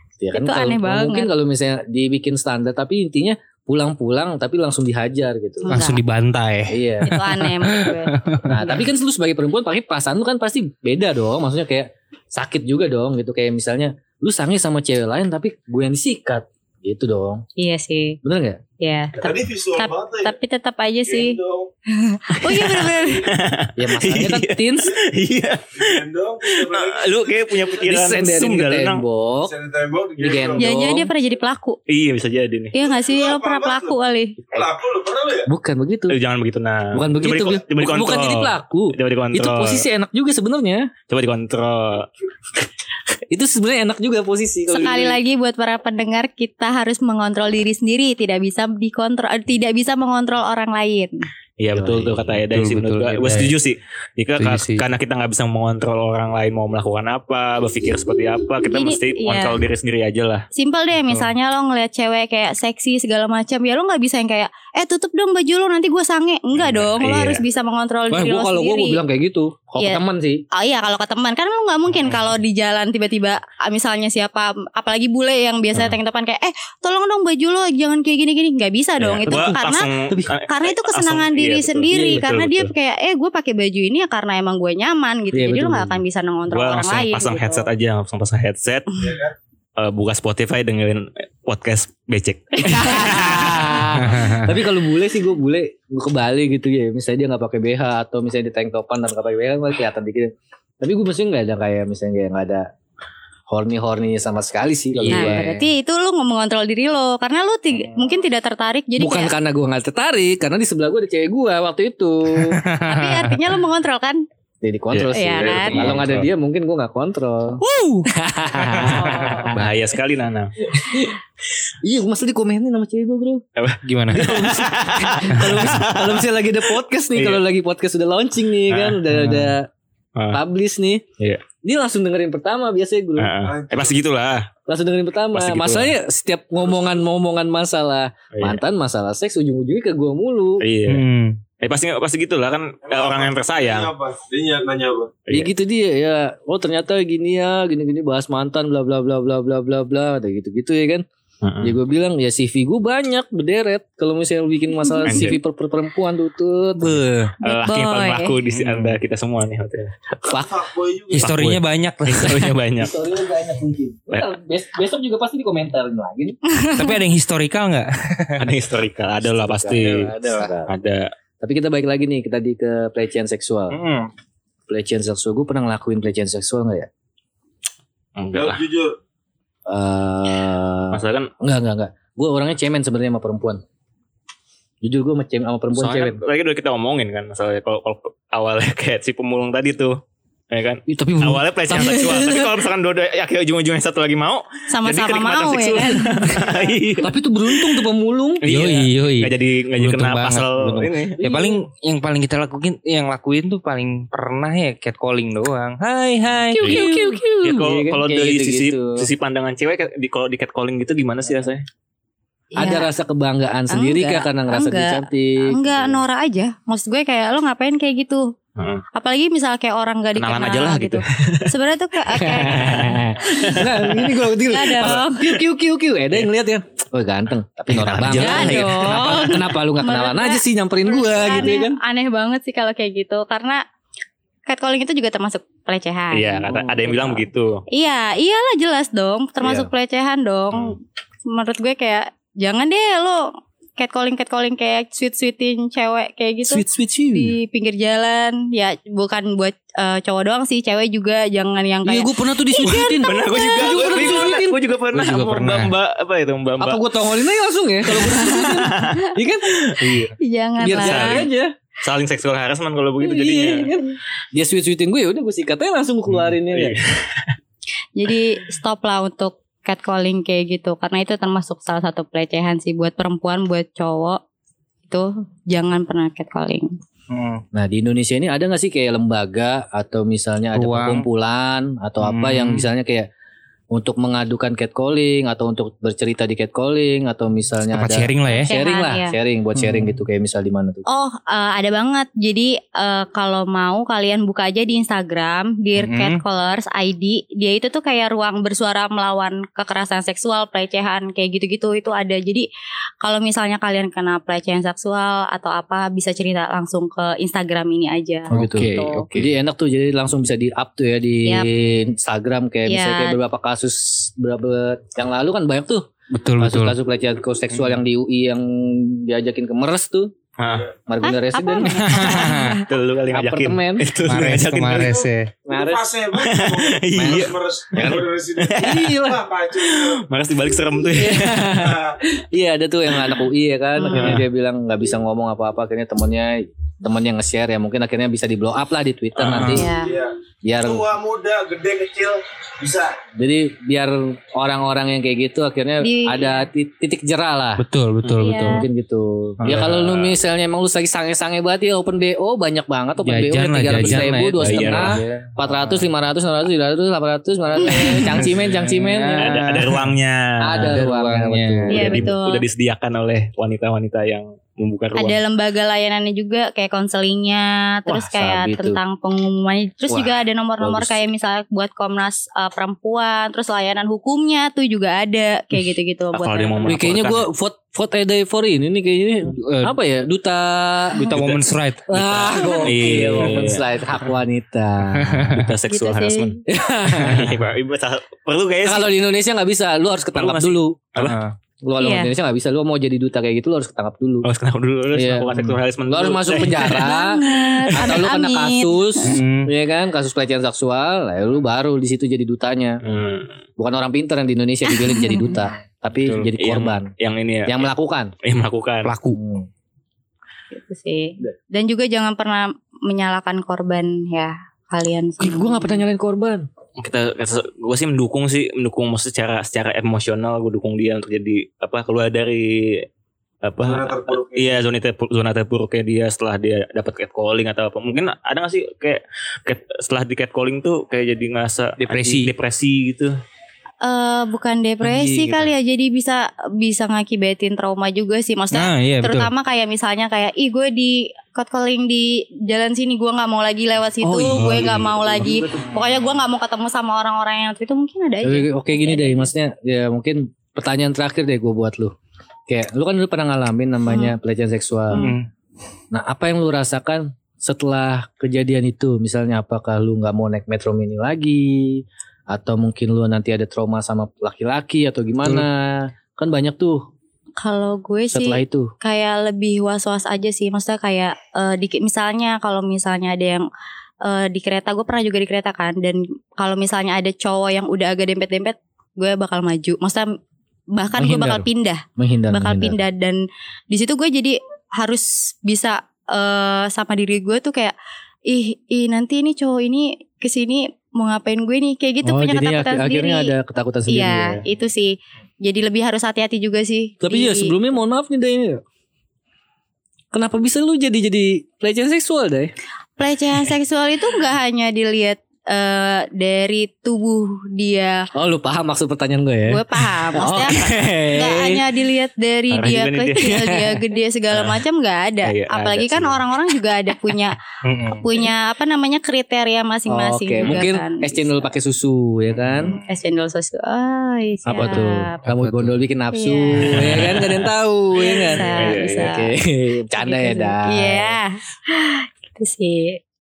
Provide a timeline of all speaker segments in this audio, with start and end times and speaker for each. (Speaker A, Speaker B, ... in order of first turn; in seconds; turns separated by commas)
Speaker A: 0.2-5.7, Speaker B: 0.3-1.3, Speaker B: 5.6-6.0, Speaker C: 5.7-8.6, Speaker A: 6.7-7.1, Speaker B: 7.1-8.7, Speaker A: 8.4-17.4, Speaker B: 17.6-18.2, Speaker A: 18.2-18.6, Speaker B: 18.8-21.4, Speaker D: 19.1-20.3, Speaker D: 21.0-21.7, Speaker B: 21.9-23.2, Speaker A: 22.4-22.9, Speaker E: 22.6-25.9, Speaker D: 22.9-23.3, Speaker A: 23.8-24.9, Speaker D: 25.7-27.5, Speaker E: 26.4-29.0, Speaker A: 27.8-29.5, Speaker D: 29.4-30.7, Speaker A: 30.2-31.1, Speaker B: 30.6-31.8, Speaker E: 31.9-32.7, Speaker B: 32.7-34.4, Speaker D: 32.8-34.0, Speaker D: 34.5-35.5, Speaker A: 35.5-36.2, Speaker E: 36.1-39.9, Speaker A: 36.9-40.9, Speaker E: 41.1-42.1, Speaker A: 43.3-45.2, Speaker B: 44.7-51.1, Speaker E: 51.6-60.5, Speaker A: 51.7-52.4, Speaker C: 52.5-53.5, Speaker C: 54.4-54.8, Speaker B: 58.7-59.6, Speaker B: 60.5-69.0, Speaker E: 66.6-67.4, Speaker A: 68.1-70.4, Speaker B: 70.5-79.9, Speaker E: 79.0-82.7, Speaker A: 79.3-80.4, Speaker B: 80.5-87.7, Speaker A: 81.9-82.3, Speaker A: 85.3-86.0, Speaker E: 86.5-89.0, Speaker D: 89.0-89.3, Speaker E: 89.8-93.9, Speaker A: 92.6-102.7, Speaker C: 94.1-94.4, Speaker A: 103.5-105.6, Speaker E: 105.0-105.5, Speaker B: 105.1-109.3, Speaker A: 109.0-112.6, Speaker C: 112.4-113.4, Speaker B: 112.9-114.2, Speaker A: 114.6-119.7, Speaker E: 114.9-116.3, Speaker B: 115.1-115.9, Speaker C: 117.6-119.5, Speaker B: 118.8-119.4, Speaker E: 119.4-120.5, Speaker A: 120.7-121.2, Speaker A: 121.8-123.4, Speaker E: 123.6-126.3, Speaker C: 123.8-124.3, Speaker A: 124.1-129.7, Speaker E: 127.1-127.4, Speaker E: 128.7-129.0, Speaker C: 129.1-129.5, Speaker A: 130.3-131.1, Speaker A: 131.6-133.3, Speaker E: 133.2-134.5, Speaker D: 133.4-133.9, Speaker A: 134.7-140.6, Speaker E: 135.3-135.9, Speaker E: 138.3-138.6, Speaker E: 140.6-141.0, Speaker C: 140.9-141.4, Speaker E: 141.6-143.9, Speaker D: 142.8-145.2, Speaker A: 145.3-151.0, Speaker E: 151.4-151.8, Speaker A: 151.6-157.0, Speaker B: 154.8-155.3, Speaker E: 155.1-155.4, Speaker C: 156.8-157.3, Speaker E: 157.4-159.9, Speaker B: 157.4-158.3, Speaker C: 158.5-159.0, Speaker A: 160.2-160.5, Speaker D: 160.4-161.4, Speaker C: 161.1-162.6, Speaker E: 161.2-162.9, Speaker A: 162.8-166.4, Speaker B: 166.5-167.0, Speaker C: 166.7-168.5, Speaker E: 168.4-170.1, Speaker A: 169.2-170.7, Speaker E: 170.7-171.1, Speaker A: 171.4-173.7, Speaker C: 173.7-174.1, Speaker A: 174.7-176.9, Speaker E: 178.2-178.6, Speaker D: 178.3-178.9, Speaker A: 179.7-183.6, Speaker E: 180.9-181.3, Speaker A: 184.8-186.2, Speaker C: 185.8-186.1, Speaker E: 185.9-190.0, Speaker E: 190.5-197.8, Speaker A: 190.9-192.6, Speaker B: 194.7-196.5, Speaker A: 197.0-198.4, Speaker E: 198.4-201.2, Speaker C: 198.4-206.8, Speaker A: 201.2-201.6, Speaker B: 206.5-207.3, Speaker A: 206.5-208.9, Speaker E: 207.4-211.7, Speaker C: 208.1-208.6, Speaker B: 212.6-212.9, Speaker A: 212.6-216.0, Speaker B: 213.7-218.3, Speaker E: 218.6-218.8, Speaker B: 218.9-223.0, Speaker E: 220.2-221.5, Speaker A: 222.2-231.8, Speaker E: 222.2-224.2, Speaker B: 224.5-225.3, Speaker E: 227.7-229.1, Speaker B: 228.1-233.6, Speaker B: 234.5-236.6, Speaker E: 236.1-237.6, Speaker A: 236.5-237.2, Speaker B: 237.7-243.2, Speaker E: 239.4-239.7, Speaker B: 243.8-254.2, Speaker A: 246.4-247.3, Speaker A: 251.8-254.6, Speaker E: 252.7-256.8, Speaker C: 254.9-255.7, Speaker A: 256.6-260.0, Speaker E: 257.9-260.1, Speaker B: 260.2-261.2, Speaker A: 260.6-261.5, Speaker E: 260.7-261.3, Speaker E: 261.8-263.7, Speaker A: 263.0-266.8, Speaker E: 266.5-267.3, Speaker B: 267.9-274.2, Speaker B: 274.9-276.8, Speaker C: 277.1-277.4, Speaker A: 277.5-283.1, Speaker C: 280.5-281.1, Speaker C: 282.0-282.7, Speaker A: 283.7-290.8, Speaker C: 287.7-288.5, Speaker B: 288.3-289.1, Speaker C: 289.6-290.0, Speaker B: 290.9-302.5, Speaker C: 295.8-296.2, Speaker B: 303.0-309.1, Speaker C: 308.3-309.3, Speaker A: 308.3-320.1, Speaker B: 312.7-313.1, Speaker C: 316.1-316.7, Speaker E: 320.4-320.7, Speaker A: 320.9-322.1, Speaker B: 321.0-322.7, Speaker C: 321.7-322.6, Speaker E: 322.7-325.0, Speaker A: 323.1-323.9, Speaker C: 324.1-325.3, Speaker D: 324.7-330.1, Speaker A: 325.5-325.9, Speaker E: 326.2-328.9, Speaker A: 326.9-328.0, Speaker A: 328.6-329.2, Speaker E: 329.6-331.4, Speaker A: 330.9-339.7, Speaker D: 331.5-332.0, Speaker B: 333.8-334.2, Speaker E: 339.2-339.5, Speaker C: 339.2-339.6, Speaker B: 339.5-339.9, Speaker D: 339.7-343.0, Speaker A: 340.4-340.9, Speaker A: 343.2-347.6, Speaker B: 345.8-346.4, Speaker C: 347.6-348.6, Speaker B: 348.2-348.6, Speaker A: 348.2-359.4, Speaker C: 349.4-349.7, Speaker E: 349.4-350.1, Speaker C: 353.0-355.8, Speaker E: 353.8-355.0, Speaker B: 357.6-358.0, Speaker C: 358.0-359.8, Speaker E: 359.2-360.8, Speaker A: 360.4-362.0, Speaker C: 360.5-361.9, Speaker B: 361.7-362.4, Speaker E: 361.7-365.2, Speaker B: 364.9-376.8, Speaker E: 367.9-368.3, Speaker A: 368.2-368.8, Speaker A: 369.9-371.1, Speaker E: 376.1-377.2, Speaker A: 376.6-381.2, Speaker C: 379.3-379.7, Speaker C: 380.9-382.5, Speaker E: 381.1-381.5, Speaker A: 381.9-385.2, Speaker B: 382.4-382.6, Speaker E: 382.6-383.6, Speaker C: 385.0-385.5, Speaker E: 385.2-386.4, Speaker B: 385.7-386.3, Speaker A: 386.5-387.4, Speaker E: 386.9-388.9, Speaker A: 388.6-390.8, Speaker E: 390.1-391.2, Speaker C: 391.0-391.3, Speaker A: 391.6-394.3, Speaker B: 391.8-392.1, Speaker E: 394.2-396.9, Speaker A: 394.9-402.8, Speaker B: 396.4-399.1, Speaker E: 397.7-398.1, Speaker C: 399.0-399.5, Speaker E: 402.8-403.3, Speaker A: 403.6-406.9, Speaker B: 404.7-405.4, Speaker C: 406.0-406.4, Speaker E: 406.4-407.7, Speaker A: 407.5-408.1, Speaker E: 408.2-408.9, Speaker C: 408.8-409.2, Speaker A: 409.1-409.5, Speaker B: 410.5-415.8, Speaker A: 415.2-416.5, Speaker E: 416.8-422.9, Speaker E: 423.4-433.2, Speaker D: 423.6-424.7, Speaker C: 431.8-432.3, Speaker B: 433.8-449.3, Speaker A: 434.8-435.5, Speaker C: 438.5-439.3, Speaker A: 444.0-445.4, Speaker E: 444.3-445.6, Speaker A: 448.2-451.9, Speaker A: 452.5-455.1, Speaker B: 453.9-454.1, Speaker C: 454.9-455.3, Speaker A: 455.9-466.8, Speaker B: 467.4-473.4, Speaker A: 468.1-468.7, Speaker B: 474.0-480.1, Speaker B: 480.7-487.7, Speaker A: 481.0-482.8, Speaker B: 488.3-493.3, Speaker A: 492.0-494.4, Speaker B: 493.9-497.5, Speaker A: 497.0-498.6, Speaker A: 500.1-502.5, Speaker B: 503.0-508.0, Speaker A: 508.1-511.6, Speaker B: 509.5-517.4, Speaker E: 512.5-513.4, Speaker A: 513.3-513.8, Speaker E: 514.3-514.6, Speaker E: 515.2-516.2, Speaker C: 517.6-518.1, Speaker B: 517.9-521.4, Speaker A: 519.9-522.8, Speaker C: 522.4-522.9, Speaker B: 522.7-525.2, Speaker A: 524.5-531.2, Speaker C: 524.8-525.8, Speaker B: 526.1-526.8, Speaker E: 526.7-527.5, Speaker B: 528.0-529.3, Speaker E: 528.1-529.1, Speaker B: 529.9-533.0